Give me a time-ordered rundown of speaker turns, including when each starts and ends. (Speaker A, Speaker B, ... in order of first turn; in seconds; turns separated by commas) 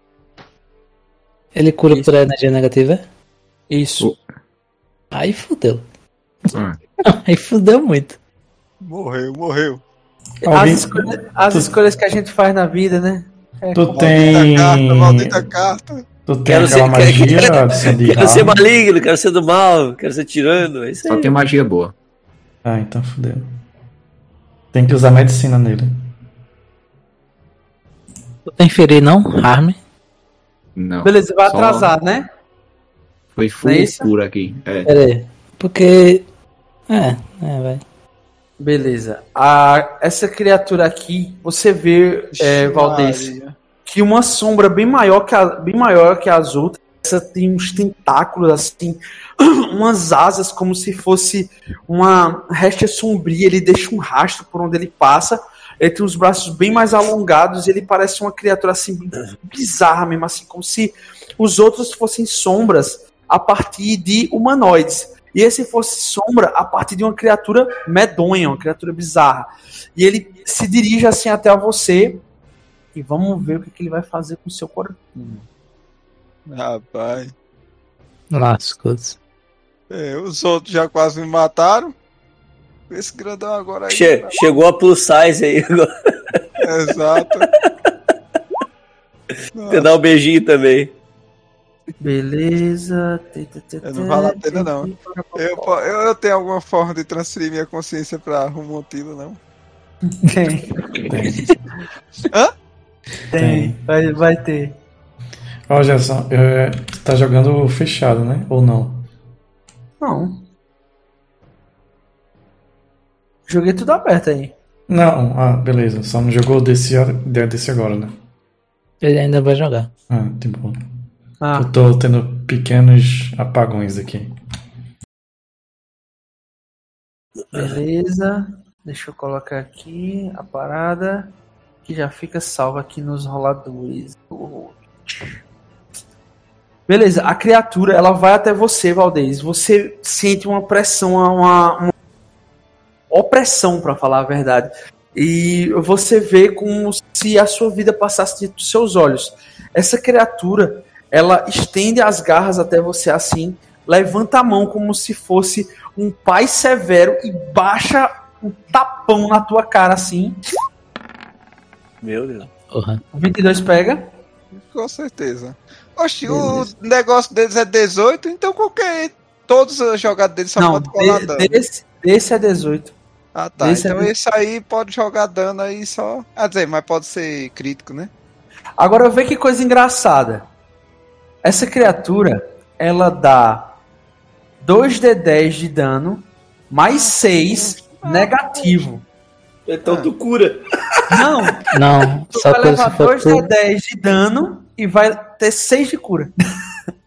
Speaker A: 1.5-3.0, Speaker B: 3.7-4.1, Speaker A: 5.1-5.8, Speaker C: 6.5-6.8, Speaker A: 7.0-8.2, Speaker D: 8.8-9.8, Speaker E: 10.4-11.7, Speaker B: 10.5-14.3, Speaker E: 13.7-15.4, Speaker D: 13.9-16.1, Speaker E: 16.2-18.6, Speaker F: 16.5-21.3, Speaker C: 21.1-21.9, Speaker E: 22.6-23.4, Speaker E: 24.7-26.0, Speaker A: 28.6-29.8, Speaker C: 30.8-31.9, Speaker B: 31.0-32.3, Speaker C: 33.4-34.9, Speaker B: 33.6-34.1, Speaker A: 34.9-36.2, Speaker A: 36.9-37.8, Speaker B: 38.6-43.3, Speaker D: 42.4-43.5, Speaker B: 43.9-72.2, Speaker B: 72.9-75.4, Speaker D: 76.5-77.3, Speaker A: 78.3-79.2, Speaker D: 79.9-81.9, Speaker D: 82.9-84.5, Speaker F: 83.9-86.4, Speaker D: 86.6-87.5, Speaker F: 87.4-87.9, Speaker D: 89.5-89.9, Speaker F: 89.7-90.9, Speaker B: 92.0-95.8, Speaker D: 93.8-99.4, Speaker B: 100.1-100.7, Speaker E: 101.1-101.4, Speaker B: 103.3-104.8, Speaker E: 103.4-103.8, Speaker E: 105.7-109.0, Speaker B: 110.0-110.4, Speaker B: 113.5-114.5, Speaker E: 114.9-118.1, Speaker A: 119.0-119.9, Speaker E: 120.1-120.8, Speaker B: 121.4-121.7, Speaker E: 121.6-124.3, Speaker F: 127.5-127.8, Speaker B: 127.5-131.3, Speaker B: 131.8-135.4, Speaker B: 136.9-141.9, Speaker B: 143.1-160.4, Speaker F: 162.0-162.5, Speaker A: 162.7-163.0, Speaker B: 163.1-164.1, Speaker D: 164.5-171.6, Speaker B: 166.2-166.7, Speaker B: 170.6-172.9, Speaker D: 173.3-178.1, Speaker B: 173.6-174.1, Speaker B: 178.8-180.4, Speaker B: 181.4-183.7, Speaker B: 184.6-189.0, Speaker D: 187.0-188.9, Speaker F: 189.7-191.2, Speaker D: 189.8-190.1, Speaker B: 191.1-191.6, Speaker A: 191.7-193.5, Speaker B: 192.3-196.3